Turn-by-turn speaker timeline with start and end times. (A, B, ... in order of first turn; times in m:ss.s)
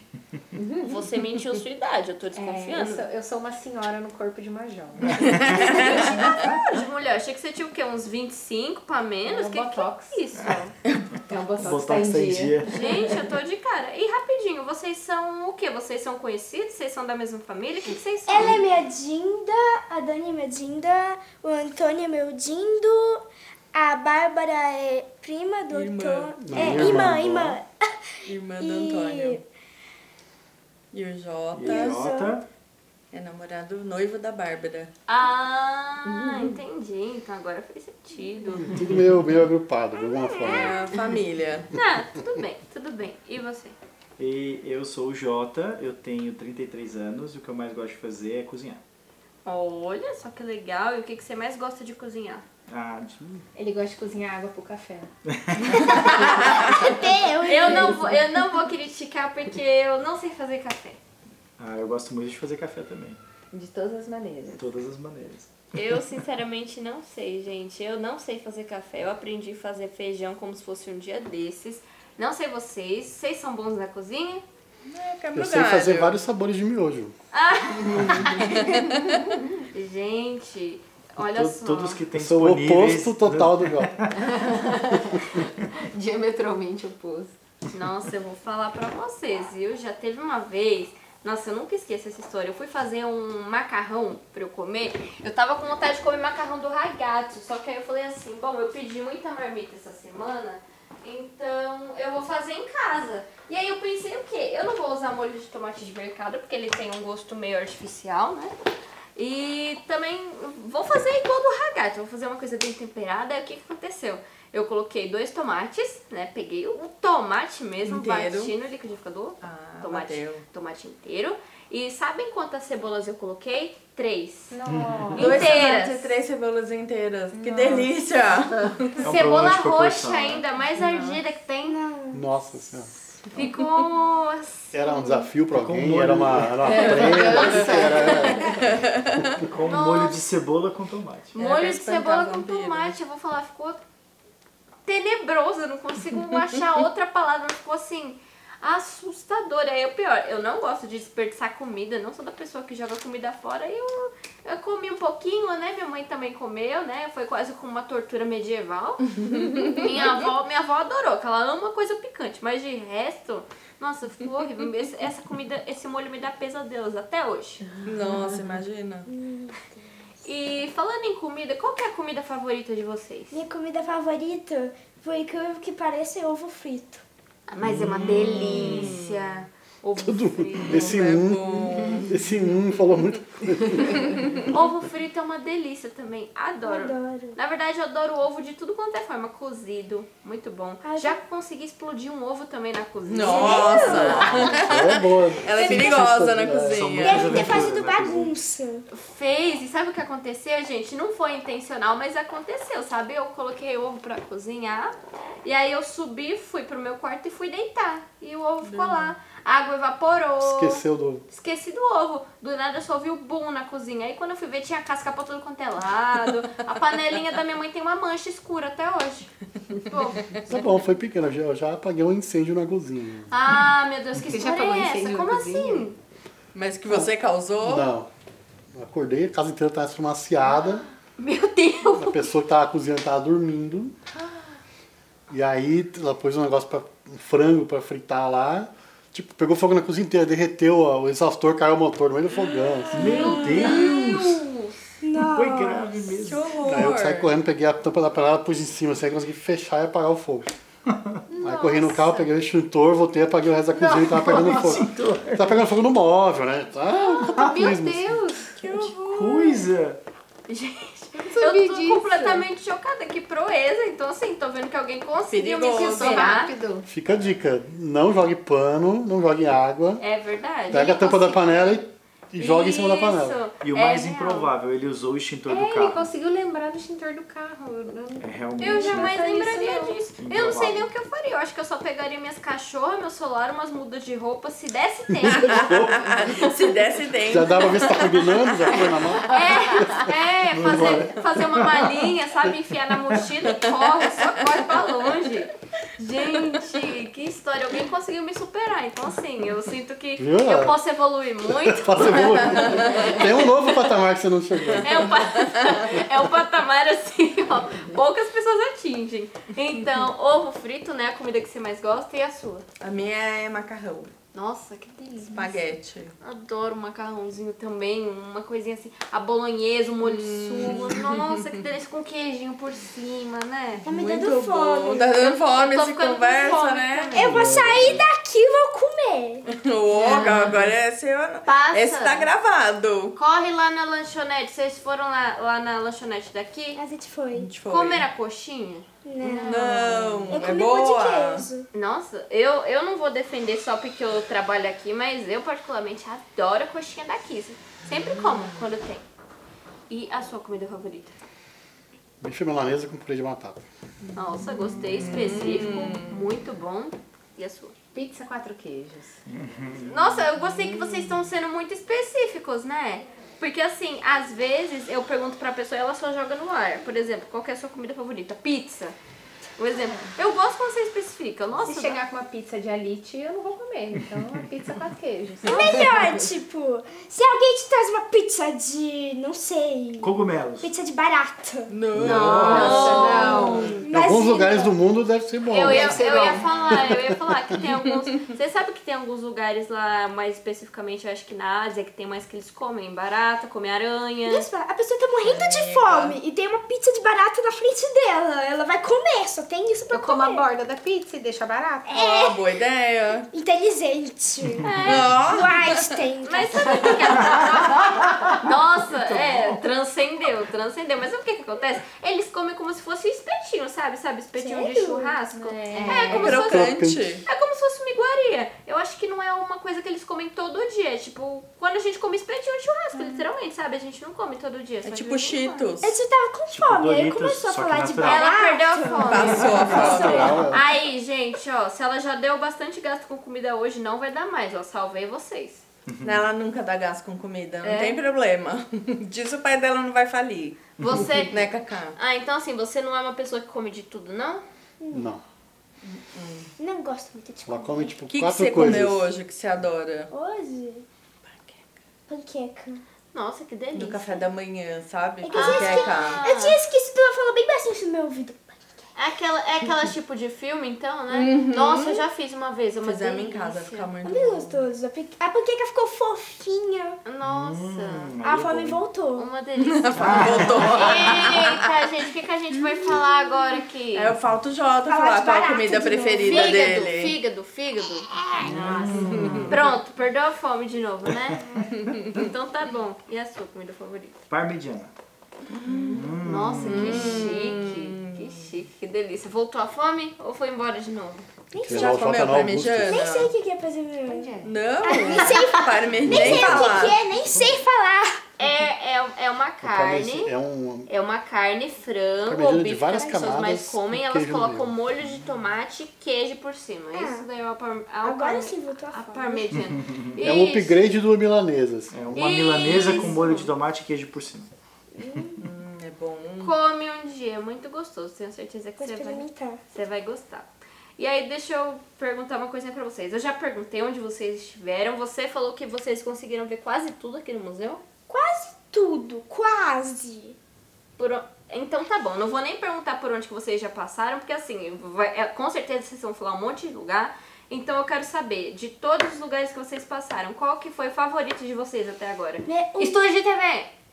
0:00.5-0:01.1 A
0:00.8-0:03.1 B
0:02.3-0:06.6 A
0:05.2-0:05.8 C
0:05.3-0:10.8 B
0:09.2-0:10.2 A
0:11.2-0:13.2 A
0:11.6-0:12.7 C
0:12.6-0:18.6 B
0:18.3-0:23.2 D
0:23.7-0:27.7 D
0:25.7-0:26.9 E
0:26.4-0:27.6 F
0:26.6-0:26.9 C
0:28.2-0:29.4 E
0:28.6-0:29.4 D
0:30.9-0:32.0 E
0:31.5-0:32.5 C
0:31.6-0:32.4 D
0:33.1-0:34.9 E
0:35.1-0:38.8 B
0:36.1-0:36.6 A
0:38.6-0:40.9 F
0:40.0-0:41.0 D
0:40.4-0:41.7 E
0:41.7-0:43.8 B
0:44.2-0:48.8 C
0:49.4-0:52.4 B
0:52.7-0:53.4 C
0:53.6-0:55.1 A
0:55.3-0:56.3 C
0:55.8-1:01.0 B
0:56.1-0:58.0 D
0:57.5-0:58.2 A
1:01.6-1:03.2 C
1:03.5-1:04.7 A
1:04.5-1:06.0 C
1:05.7-1:14.4 B
1:14.9-1:16.2 E
1:15.4-1:17.2 F
1:17.3-1:18.9 B
1:19.7-1:22.0 B
1:21.2-1:24.2 C
1:22.1-1:24.0 F
1:24.2-1:27.3 A
1:27.7-1:48.6 B
1:49.2-2:04.6 B
1:57.8-1:58.5 E
1:59.4-2:00.4 E
2:04.5-2:05.5 A
2:04.7-2:05.5 C
2:05.1-2:06.2 B
2:05.2-2:09.0 E
2:07.3-2:07.9 A
2:09.0-2:10.4 C
2:09.0-2:11.8 B
2:10.8-2:11.2 A
2:11.6-2:12.2 D
2:12.1-2:12.9 F
2:13.3-2:14.7 B
2:14.7-2:18.7 F
2:15.5-2:16.8 C
2:16.6-2:18.4 A
2:17.0-2:18.4 B
2:17.8-2:19.3 E
2:19.4-2:21.4 C
2:19.6-2:20.3 B
2:21.4-2:23.8 B
2:21.4-2:23.0 E
2:24.9-2:47.7 B
2:39.2-2:39.9 E
2:47.8-2:49.1 E
2:49.1-2:49.8 D
2:50.2-2:53.4 B
2:53.3-2:57.0 D
2:57.5-3:01.2 B
2:57.8-2:58.2 C
2:58.0-2:59.1 E
3:00.0-3:04.2 F
3:00.7-3:02.2 E
3:04.4-3:14.7 B
3:06.6-3:07.4 D
3:10.8-3:11.2 D
3:13.1-3:17.5 E
3:13.2-3:14.3 D
3:13.9-3:17.0 F
3:16.6-3:18.3 C
3:17.0-3:18.9 D
3:18.9-3:39.3 B
3:28.6-3:29.1 E
3:30.4-3:31.2 F
3:39.9-3:40.3 B
3:40.5-3:43.3 F
3:43.3-3:46.0 B
3:44.2-3:45.9 A
3:46.5-3:47.9 E
3:47.6-3:48.1 F
3:48.7-3:50.9 F
3:51.2-3:52.3 B
3:52.0-3:54.0 F
3:55.3-4:03.3 F
4:02.9-4:04.4 C
4:03.0-4:04.8 B
4:03.0-4:03.9 D
4:05.0-4:06.2 D
4:05.3-4:06.9 C
4:06.2-4:07.3 E
4:06.6-4:10.5 F
4:11.3-4:12.3 B
4:11.4-4:18.3 F
4:13.8-4:14.9 A
4:13.9-4:15.7 C
4:17.0-4:19.0 A
4:17.3-4:17.7 C
4:18.7-4:19.5 D
4:18.9-4:20.0 C
4:20.5-4:26.5 B
4:21.1-4:22.5 A
4:25.3-4:26.4 E
4:25.6-4:26.9 A
4:26.9-4:30.0 F
4:30.0-4:31.7 B
4:30.7-4:33.4 F
4:32.4-4:34.5 B
4:33.6-4:36.1 C
4:35.5-4:40.0 A
4:38.2-4:39.2 C
4:38.6-4:46.4 B
4:40.2-4:40.9 C
4:45.2-4:46.3 F
4:45.3-4:49.3 E
4:47.2-4:51.1 F
4:49.3-5:03.8 B
4:50.6-4:52.1 C
4:53.6-4:54.4 E
5:00.2-5:00.8 F
5:01.4-5:05.3 F
5:02.4-5:02.7 E
5:04.8-5:12.6 B
5:12.8-5:14.1 E
5:14.3-5:15.3 B
5:15.0-5:15.5 A
5:15.3-5:16.2 E
5:16.2-5:23.9 B
5:20.0-5:21.5 E
5:23.8-5:25.1 D
5:23.9-5:27.2 E
5:25.2-5:27.5 B
5:27.1-5:29.5 D
5:27.2-5:28.0 C
5:27.4-5:27.9 F
5:29.5-5:33.2 E
5:30.0-5:30.6 B
5:30.0-5:30.7 A
5:31.5-5:32.3 B
5:33.2-5:36.8 B
5:36.8-5:37.5 D
5:37.3-5:38.1 E
5:37.7-5:40.6 B
5:39.0-5:39.8 D
5:39.4-5:41.5 E
5:40.3-5:41.7 D
5:41.7-5:49.0 B
5:49.9-5:51.2 B
5:52.2-5:53.6 F
5:54.2-5:57.8 B
5:54.8-5:56.2 E
5:57.9-5:59.2 A
5:59.3-6:00.3 C
5:59.9-6:09.0 B
6:00.5-6:01.0 E
6:09.6-6:12.0 B
6:11.6-6:16.2 A
6:15.4-6:21.8 D
6:20.0-6:20.7 C
6:21.7-6:23.8 E
6:21.9-6:23.2 C
6:22.0-6:23.9 A
6:22.4-6:23.8 B
6:23.8-6:24.8 D
6:23.9-6:27.2 F
6:25.5-6:34.5 B
6:25.6-6:26.7 A
6:34.3-6:40.5 D
6:35.2-6:36.2 E
6:39.9-6:42.0 A
6:41.9-6:42.4 D
6:41.9-6:43.3 E
6:43.3-6:47.2 D
6:44.6-6:45.3 B
6:44.8-6:46.0 E
6:46.2-7:05.7 B
6:49.1-6:49.6 C
6:54.4-6:55.2 D
6:55.4-6:56.4 A
6:55.8-6:57.3 E
6:56.4-6:57.2 F
7:04.8-7:06.0 E
7:05.8-7:10.5 D
7:06.5-7:08.4 C
7:08.0-7:15.6 B
7:09.0-7:10.4 E
7:09.4-7:09.7 C
7:09.7-7:10.7 F
7:16.0-7:22.0 E
7:17.6-7:18.0 B
7:20.8-7:21.4 B
7:22.0-7:24.4 B
7:24.8-7:25.1 D
7:24.9-7:25.2 F
7:25.8-7:26.5 E
7:26.6-7:28.0 D
7:27.5-7:29.1 F
7:28.1-7:30.1 E
7:30.1-7:30.9 D
7:31.3-7:31.6 E
7:32.1-7:32.8 D
7:33.1-7:34.2 B
7:33.8-7:36.2 E
7:35.2-7:38.6 D
7:35.3-7:36.6 B
7:39.0-7:43.9 B
7:41.1-7:42.0 E
7:42.8-7:44.6 E
7:44.0-7:47.0 D
7:47.0-7:48.1 B
7:47.2-7:48.8 C
7:48.2-7:49.3 D
7:49.2-7:54.1 B
7:49.6-7:51.6 E
7:49.9-7:51.1 C
7:53.9-7:57.2 E
7:54.8-7:56.7 D
7:56.2-8:01.4 B
7:58.4-7:59.6 C
7:58.8-7:59.3 A
7:59.0-7:59.6 E
8:01.8-8:02.0 E
8:02.0-8:04.2 B
8:04.3-8:04.9 C
8:05.5-8:06.1 E
8:05.7-8:06.2 A
8:06.0-8:07.3 C
8:06.2-8:11.3 B
8:06.6-8:08.4 E
8:11.5-8:12.2 D
8:11.6-8:13.0 F
8:11.7-8:13.3 E
8:12.9-8:18.2 D
8:14.1-8:15.5 A
8:14.4-8:17.0 E
8:16.0-8:16.8 F
8:17.2-8:17.6 C
8:18.4-8:20.3 B
8:19.6-8:20.9 F
8:20.9-8:30.8 B
8:22.3-8:24.7 F
8:23.0-8:23.3 D
8:26.9-8:27.3 D
8:28.0-8:29.6 D
8:29.6-8:30.2 C
8:30.2-8:32.2 F
8:31.9-8:34.5 C
8:32.2-8:33.5 B
8:35.0-8:35.4 D
8:35.4-8:36.6 E
8:36.4-8:47.8 B
8:38.8-8:39.6 D
8:48.1-8:50.4 D
8:51.0-9:03.7 B
9:02.5-9:03.0 D